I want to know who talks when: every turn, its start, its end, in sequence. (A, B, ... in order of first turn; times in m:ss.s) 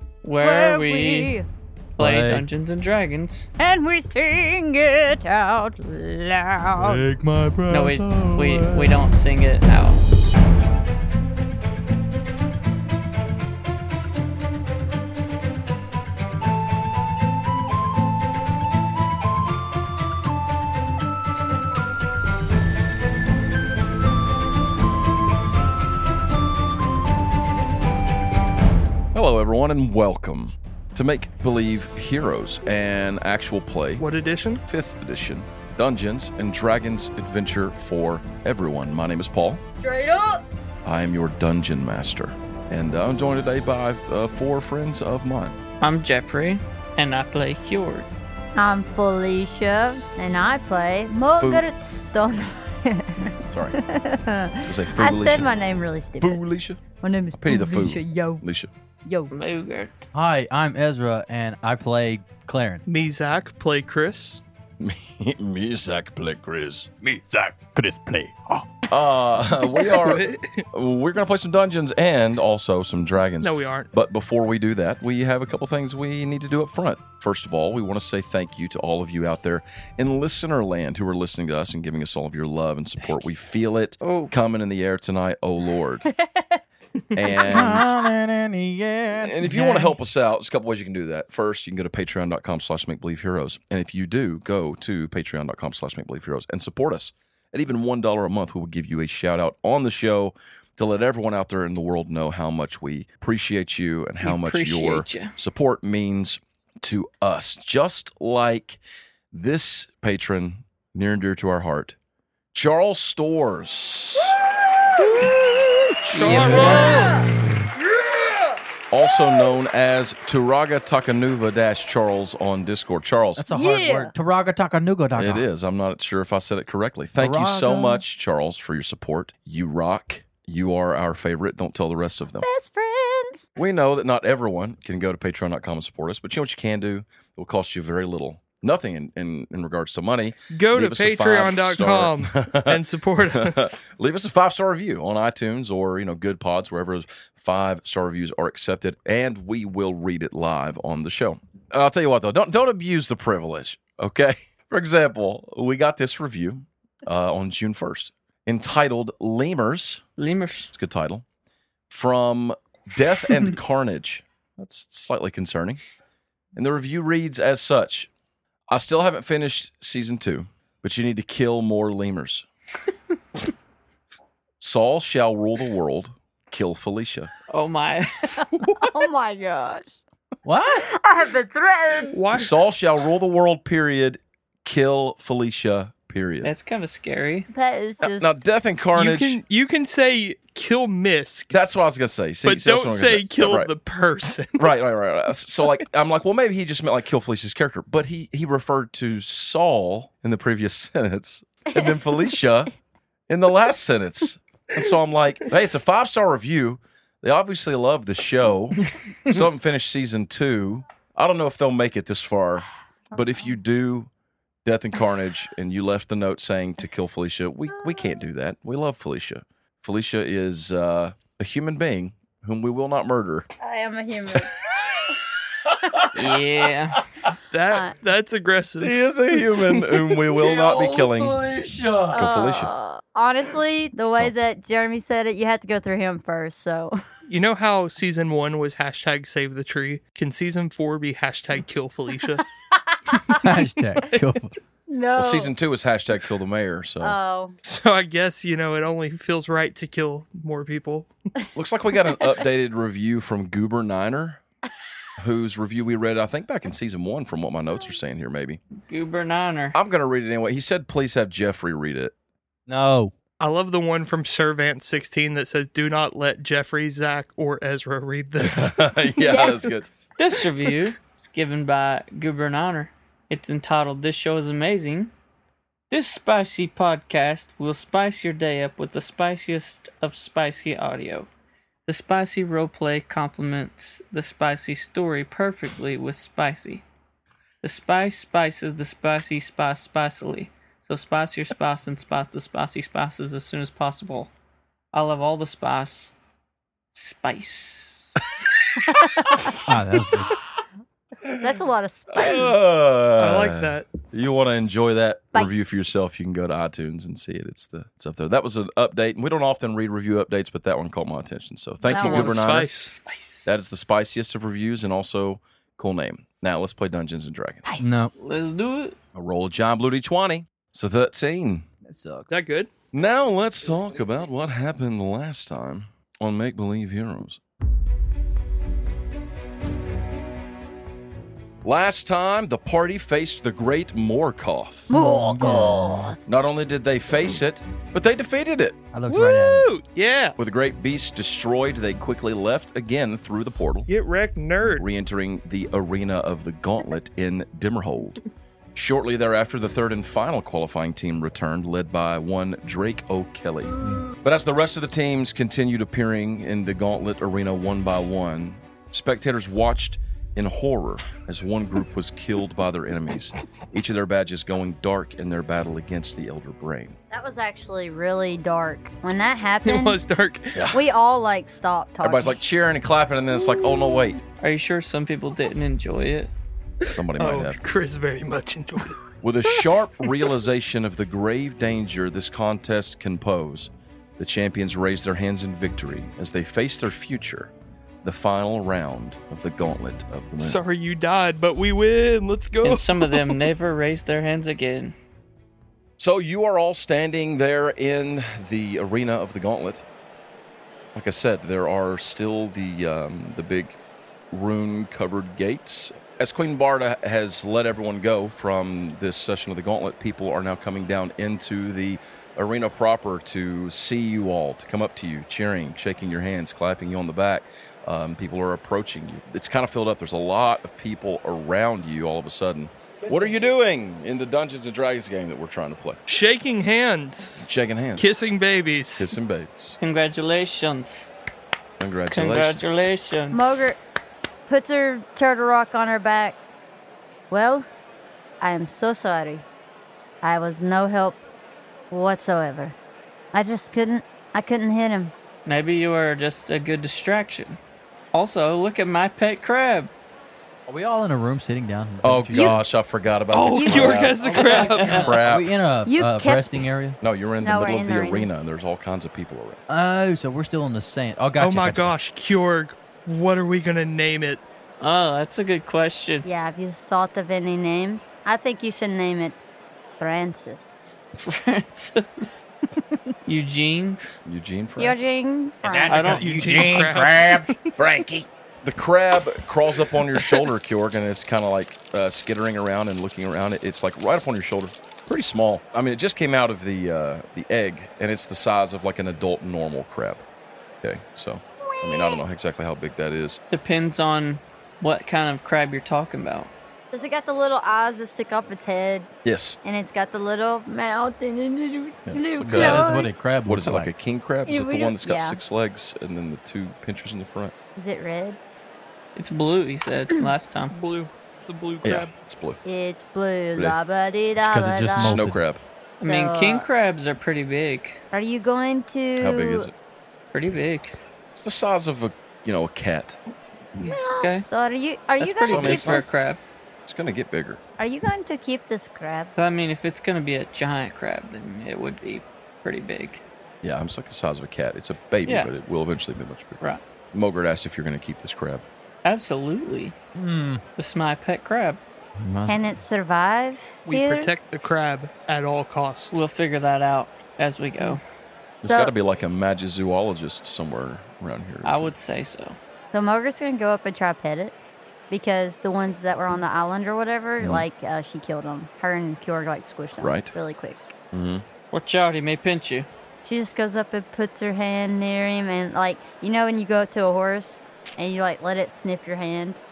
0:00.2-0:01.4 A
0:00.4-0:01.5 B
0:02.0-0:02.4 C
0:02.0-0:03.5 A
0:03.6-0:07.1 B
0:06.8-0:09.0 C
0:07.7-0:10.0 A
0:29.1-0:34.1 D
0:34.0-0:34.6 E
0:34.7-0:39.6 D
0:39.8-0:40.4 B
0:40.8-0:45.6 D
0:45.8-0:48.1 A
0:48.6-0:56.4 B
0:51.4-0:51.7 D
0:53.5-0:53.8 D
0:54.6-0:55.5 D
0:56.2-0:56.8 D
0:57.0-0:58.4 B
0:57.4-0:58.7 D
0:59.0-0:59.3 B
0:59.3-1:00.1 A
1:00.1-1:02.8 C
1:02.9-1:04.4 E
1:04.8-1:07.4 D
1:07.1-1:08.8 C
1:08.9-1:26.1 D
1:09.9-1:10.7 E
1:13.4-1:13.9 E
1:24.0-1:24.3 A
1:26.1-1:26.6 B
1:27.1-1:28.0 D
1:27.4-1:30.0 C
1:29.1-1:48.8 D
1:44.2-1:45.3 A
1:49.3-1:52.0 D
1:52.5-1:54.4 D
1:55.0-1:55.3 A
1:56.1-1:56.6 D
1:56.1-1:57.4 A
1:56.1-1:57.3 E
1:56.7-1:57.3 B
1:58.9-2:03.5 D
2:03.4-2:05.4 C
2:03.5-2:04.1 B
2:05.2-2:12.5 D
2:07.2-2:08.0 C
2:12.4-2:13.5 B
2:13.6-2:40.0 D
2:20.5-2:23.8 E
2:40.2-2:40.7 A
2:40.7-2:41.2 D
2:41.9-2:45.8 D
2:46.6-2:48.1 D
2:48.7-2:52.5 D
2:54.6-2:57.3 D
2:57.5-2:58.5 A
2:58.6-3:00.0 B
3:00.4-3:00.9 C
3:00.6-3:02.2 B
3:02.1-3:02.5 E
3:02.3-3:06.5 D
3:06.4-3:07.5 A
3:07.5-3:08.3 B
3:08.0-3:09.4 D
3:09.0-3:11.5 E
3:11.5-3:13.7 D
3:12.4-3:14.7 E
3:14.6-3:22.7 D
3:23.3-3:34.1 D
3:34.6-3:43.5 D
3:43.6-3:44.5 B
3:45.9-3:46.2 D
3:46.1-3:47.0 A
3:47.5-3:49.9 E
3:48.8-3:51.4 D
3:50.1-3:52.2 C
3:52.1-3:52.7 D
3:52.1-3:57.0 B
3:57.3-4:02.4 E
4:03.1-4:03.4 B
4:03.3-4:04.5 C
4:04.9-4:05.5 B
4:05.2-4:07.2 D
4:07.0-4:07.6 B
4:07.6-4:11.1 E
4:11.6-4:14.4 D
4:15.2-4:18.6 D
4:18.9-4:19.8 A
4:19.7-4:22.1 D
4:22.7-4:23.1 C
4:23.4-4:28.9 E
4:28.4-4:29.9 D
4:29.2-4:29.6 B
4:30.2-4:35.1 A
4:35.9-4:41.3 A
4:41.9-4:46.8 A
4:47.6-4:54.3 A
4:54.9-4:56.1 A
4:56.9-4:58.2 A
4:58.8-4:59.6 B
4:59.6-5:00.4 C
5:01.3-5:02.5 B
5:02.1-5:12.9 D
5:03.2-5:04.1 E
5:05.3-5:05.8 B
5:11.9-5:12.4 B
5:11.9-5:13.0 E
5:13.1-5:13.4 A
5:13.4-5:17.7 D
5:17.7-5:18.2 B
5:17.8-5:18.2 C
5:18.2-5:19.0 A
5:19.1-5:21.7 D
5:21.9-5:22.3 C
5:22.3-5:22.7 E
5:22.9-5:27.4 D
5:31.6-5:34.9 D
5:34.9-5:36.2 B
5:34.9-5:36.1 C
5:36.3-5:38.8 D
5:38.9-5:39.7 C
5:39.1-5:40.4 E
5:40.4-5:43.9 D
5:43.9-5:44.9 E
5:44.7-5:48.2 D
5:48.8-6:07.0 D
6:07.1-6:10.0 B
6:09.7-6:10.7 E
6:10.5-6:10.8 D
6:10.7-6:12.4 B
6:12.0-6:14.2 D
6:14.4-6:16.3 A
6:16.8-6:17.6 D
6:17.2-6:19.0 E
6:19.2-6:27.5 D
6:28.0-6:30.6 D
6:30.4-6:33.4 E
6:32.6-6:34.9 A
6:36.0-6:39.8 D
6:40.9-6:43.8 D
6:44.3-7:06.0 D
7:06.1-7:09.1 E
7:07.4-7:08.2 D
7:09.0-7:09.8 D
7:09.8-7:11.1 A
7:11.8-7:12.9 D
7:12.1-7:13.7 A
7:13.3-7:13.8 B
7:14.5-7:16.4 B
7:17.3-7:17.7 B
7:18.4-7:19.5 B
7:20.2-7:21.2 B
7:21.9-7:22.8 B
7:23.3-7:25.1 B
7:25.5-7:27.6 A
7:28.1-7:29.9 A
7:30.7-7:32.6 C
7:32.0-7:35.6 D
7:32.3-7:32.6 B
7:33.3-7:35.2 E
7:33.5-7:34.0 B
7:34.2-7:37.0 C
7:34.5-7:35.0 A
7:35.9-7:36.6 B
7:37.0-7:39.6 D
7:37.4-7:38.3 B
7:39.7-7:41.9 C
7:41.4-7:44.4 E
7:44.8-7:46.3 A
7:46.2-7:50.9 B
7:51.2-7:52.4 A
7:53.2-7:54.0 A
7:54.2-7:55.2 D
7:54.8-7:56.2 B
7:55.6-7:57.5 C
7:55.9-7:57.0 A
7:55.9-7:57.7 E
7:57.8-8:10.2 D
8:10.8-8:13.4 D
8:11.6-8:12.2 B
8:13.5-8:16.5 A
8:16.9-8:19.1 B
8:19.2-8:19.6 D
8:19.6-8:23.2 B
8:22.1-8:22.9 D
8:22.5-8:23.9 C
8:23.4-8:27.5 D
8:24.5-8:25.4 B
8:27.8-8:28.4 B
8:29.2-8:30.7 A
8:30.7-8:32.1 E
8:31.8-8:32.6 D
8:32.6-8:35.3 B
8:34.4-8:35.4 C
8:35.0-8:35.6 D
8:36.0-8:38.0 A
8:36.0-8:36.7 B
8:38.1-8:39.7 B
8:39.2-8:39.7 D
8:40.3-8:40.9 A
8:41.3-8:43.2 D
8:43.8-8:44.0 D
8:43.8-8:46.4 B
8:44.1-8:44.5 A
8:45.2-8:46.4 A
8:45.4-8:46.1 D
8:46.8-8:47.6 D
8:47.8-8:49.3 B
8:49.4-8:53.2 A
8:53.6-8:56.6 D
8:55.2-8:55.5 A
8:57.1-8:58.6 D
8:59.0-9:00.0 A
9:00.2-9:00.6 C
9:00.8-9:01.8 A
9:02.2-9:02.8 C
9:02.5-9:04.3 B
9:03.8-9:06.2 E
9:06.1-9:08.0 A
9:08.6-9:11.9 D
9:08.6-9:08.9 B
9:11.6-9:12.6 A
9:12.9-9:14.5 B
9:15.1-9:21.0 B
9:17.4-9:17.6 D
9:20.0-9:20.3 D
9:21.1-9:21.4 D
9:21.7-9:22.9 A
9:23.2-9:29.6 B